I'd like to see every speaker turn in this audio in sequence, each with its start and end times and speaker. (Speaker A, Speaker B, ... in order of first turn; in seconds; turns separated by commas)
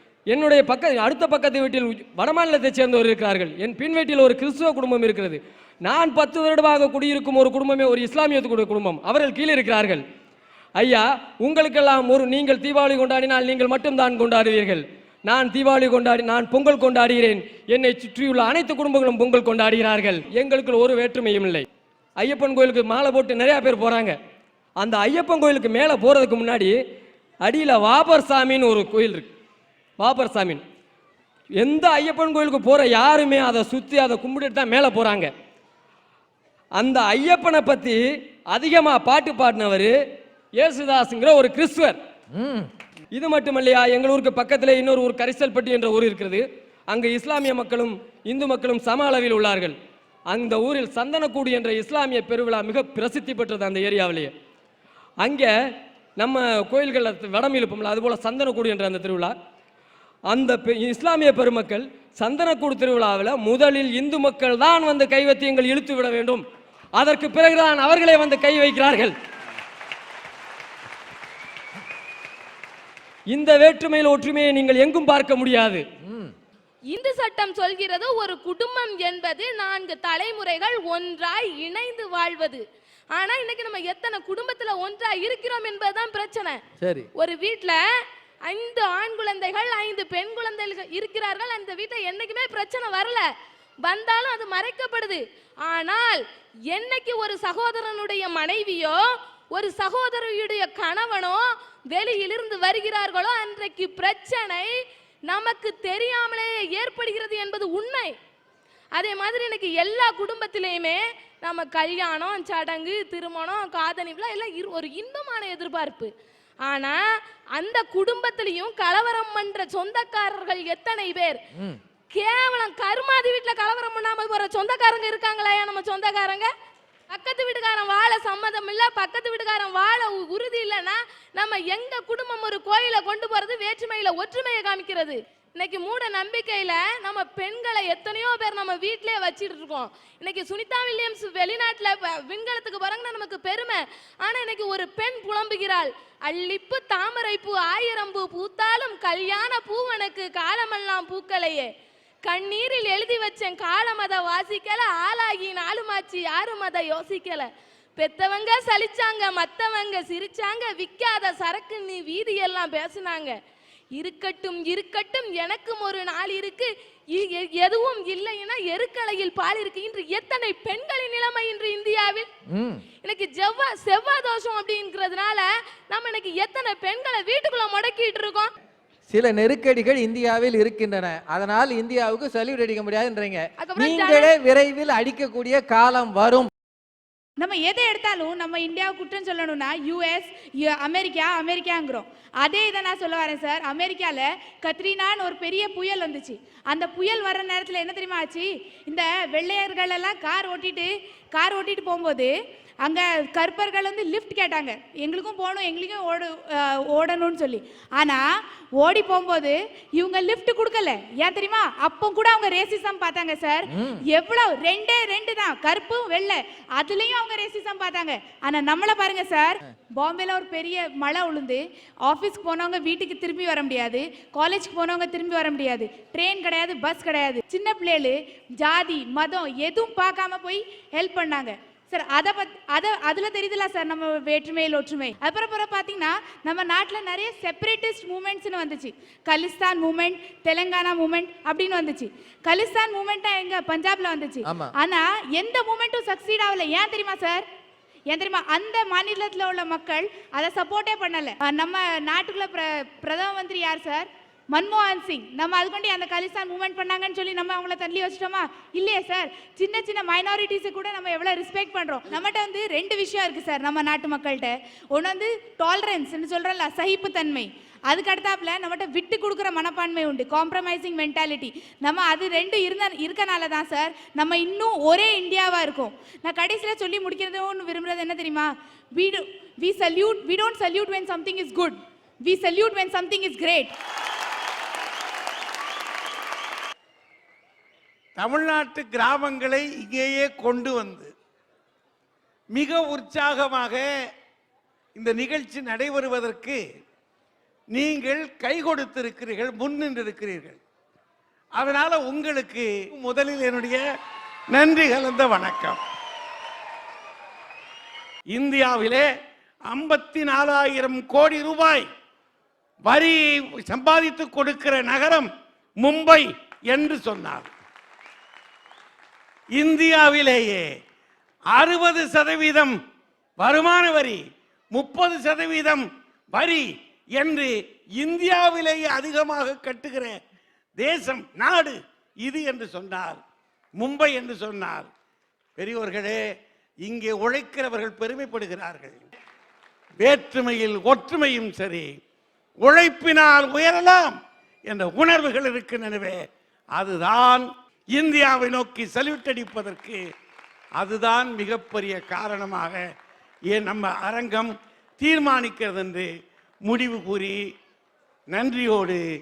Speaker A: 0.3-10.0, Speaker A: 10.8-21.7, Speaker A: 22.2-24.2, Speaker A: 24.8-26.8, Speaker A: 27.4-29.3, Speaker A: 30.0-30.6, Speaker A: 31.6-35.3, Speaker A: 36.8-40.0, Speaker A: 40.6-42.0, Speaker B: 42.4-42.7, Speaker A: 43.1-49.8, Speaker A: 50.3-54.3, Speaker A: 55.2-55.5, Speaker A: 56.2-59.3, Speaker A: 60.3-66.4, Speaker A: 67.0-69.1, Speaker A: 73.3-75.8, Speaker B: 76.1-76.3, Speaker C: 76.9-82.6, Speaker C: 83.1-86.5, Speaker B: 86.8-87.1, Speaker C: 87.2-87.8, Speaker C: 88.5-93.2, Speaker C: 93.8-99.0, Speaker C: 99.5-104.7, Speaker C: 105.3-108.1, Speaker C: 109.0-116.1, Speaker C: 116.7-117.0, Speaker C: 117.6-121.4, Speaker C: 122.1-126.5, Speaker C: 127.1-151.7, Speaker C: 152.3-163.4, Speaker C: 163.9-172.3, Speaker B: 172.5-172.8, Speaker C: 173.0-178.5, Speaker B: 179.1-186.5, Speaker C: 183.6-184.3, Speaker D: 187.4-208.2, Speaker D: 208.8-247.4, Speaker D: 248.1-283.7, Speaker E: 288.2-291.1, Speaker E: 292.5-293.9, Speaker E: 295.0-296.6, Speaker E: 297.7-300.6, Speaker E: 301.6-303.8, Speaker E: 304.5-305.8, Speaker E: 308.3-309.1, Speaker E: 309.7-311.9, Speaker E: 312.8-317.5, Speaker E: 319.5-320.7, Speaker E: 321.5-322.8, Speaker E: 323.4-330.2, Speaker E: 330.8-333.2, Speaker E: 333.8-334.9, Speaker E: 335.6-336.2, Speaker E: 336.8-339.0, Speaker E: 340.0-341.9, Speaker E: 342.6-346.2, Speaker E: 346.7-350.0, Speaker E: 350.8-352.9, Speaker E: 353.5-356.1, Speaker E: 356.6-357.4, Speaker E: 358.3-359.0